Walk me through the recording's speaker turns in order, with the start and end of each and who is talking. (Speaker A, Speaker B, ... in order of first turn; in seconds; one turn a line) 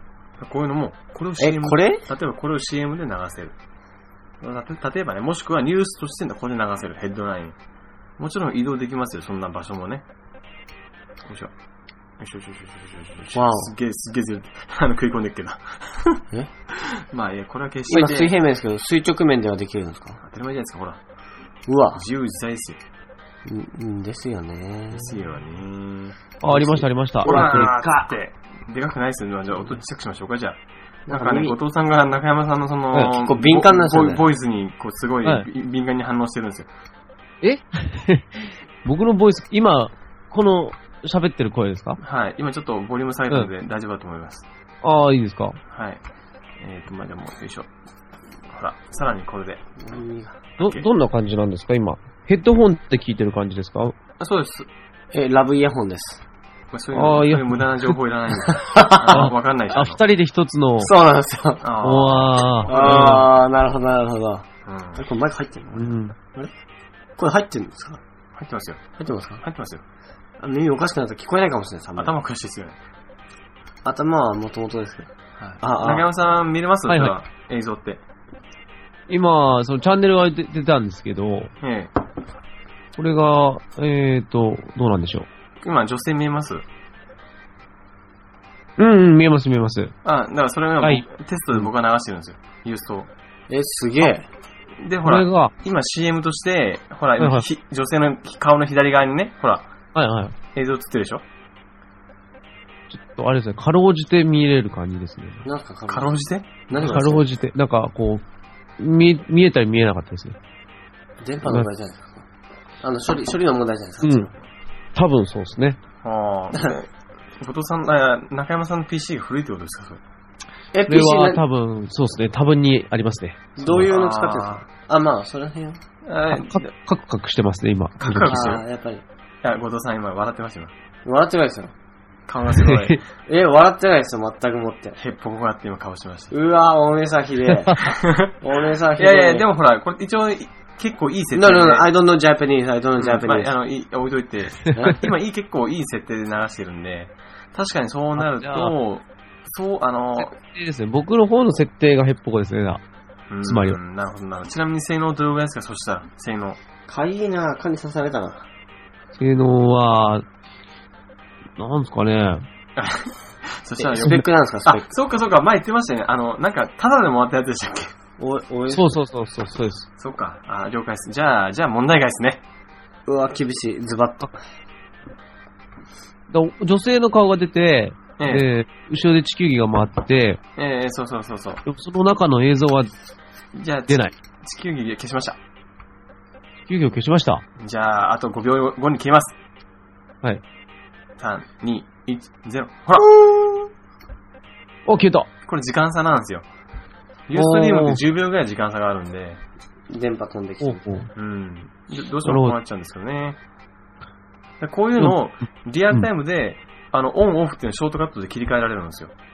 Speaker A: 0.4-3.6
Speaker B: 1.4-2.1
Speaker A: 4.4-7.6
Speaker A: 8.2-10.1
Speaker A: 11.3-11.5
Speaker A: 12.2-18.4
Speaker B: 13.3-13.7
Speaker B: 17.9-20.2
Speaker A: 20.2-21.0
Speaker B: 21.7-22.0
Speaker A: 21.9-22.8
Speaker B: 23.4-25.2
Speaker A: 24.9-26.2
Speaker C: 26.4-27.7
Speaker B: 26.4-27.9
Speaker A: 27.2-36.7
Speaker B: 31.1-31.6
Speaker B: 33.1-34.3
Speaker C: 37.4-42.0
Speaker A: 42.0-44.5
Speaker C: 44.8-45.6
Speaker A: 45.7-46.0
Speaker A: 46.6-47.7
Speaker A: 48.5-49.6
Speaker B: 49.8-50.4
Speaker A: 50.6-50.9
Speaker C: 50.6-54.0
Speaker A: 54.2-54.7
Speaker B: 55.1-56.2
Speaker A: 56.7-60.0
Speaker C: 56.9-57.9
Speaker B: 58.5-59.3
Speaker C: 59.1-60.9
Speaker B: 60.8-61.7
Speaker A: 61.6-63.3
Speaker C: 61.8-63.3
Speaker B: 62.7-66.5
Speaker A: 64.7-65.0
Speaker C: 65.7-66.2
Speaker B: 67.2-68.0
Speaker A: 68.3-68.9
Speaker B: 69.0-69.4
Speaker A: 69.4-69.8
Speaker B: 70.4-72.1
Speaker A: 72.0-72.8
Speaker B: 73.8-76.1
Speaker A: 75.4-78.0
Speaker C: 76.9-77.1
Speaker C: 79.1-81.5
Speaker A: 81.6-81.9
Speaker C: 83.0-85.3
Speaker A: 85.6-86.7
Speaker C: 88.8-90.0
Speaker A: 90.0-93.1
Speaker B: 93.5-94.3
Speaker A: 94.8-99.7
Speaker C: 95.0-95.5
Speaker C: 97.2-97.5
Speaker C: 99.9-100.3
Speaker A: 100.5-101.2
Speaker C: 102.9-105.4
Speaker B: 105.4-107.3
Speaker A: 105.9-107.0
Speaker C: 106.8-108.2
Speaker C: 108.8-110.4
Speaker B: 111.2-112.3
Speaker B: 112.8-114.3
Speaker C: 114.0-114.3
Speaker C: 115.0-115.8
Speaker A: 116.0-120.0
Speaker B: 120.7-121.4
Speaker C: 120.9-123.9
Speaker B: 123.6-125.8
Speaker A: 123.7-124.7
Speaker A: 126.0-126.7
Speaker C: 126.3-128.6
Speaker A: 128.0-128.6
Speaker B: 128.2-129.0
Speaker A: 129.4-130.7
Speaker B: 131.1-131.7
Speaker A: 132.3-133.0
Speaker C: 132.6-133.0
Speaker B: 133.2-135.0
Speaker A: 135.0-136.3
Speaker B: 136.3-139.5
Speaker A: 137.8-138.4
Speaker A: 138.9-141.9
Speaker B: 141.3-143.5
Speaker A: 143.0-150.3
Speaker B: 144.7-145.0
Speaker C: 148.2-148.7
Speaker C: 150.2-152.8
Speaker A: 153.3-156.6
Speaker C: 153.4-153.8
Speaker B: 156.9-158.5
Speaker C: 159.2-160.3
Speaker C: 161.6-162.5
Speaker A: 162.8-167.9
Speaker B: 163.8-164.9
Speaker B: 168.2-169.0
Speaker C: 168.7-169.9
Speaker A: 170.0-172.4
Speaker B: 173.1-174.4
Speaker C: 176.3-180.4
Speaker A: 178.2-178.5
Speaker A: 180.6-181.6
Speaker C: 181.7-182.9
Speaker A: 183.5-185.4
Speaker C: 183.9-184.2
Speaker C: 186.7-187.4
Speaker A: 187.6-189.4
Speaker A: 191.2-193.1
Speaker C: 193.2-193.5
Speaker C: 194.9-195.3
Speaker A: 195.4-196.5
Speaker A: 197.3-199.4
Speaker C: 197.3-198.0
Speaker B: 199.9-200.8
Speaker C: 200.6-201.1
Speaker A: 201.2-203.4
Speaker C: 202.2-202.6
Speaker A: 204.6-209.1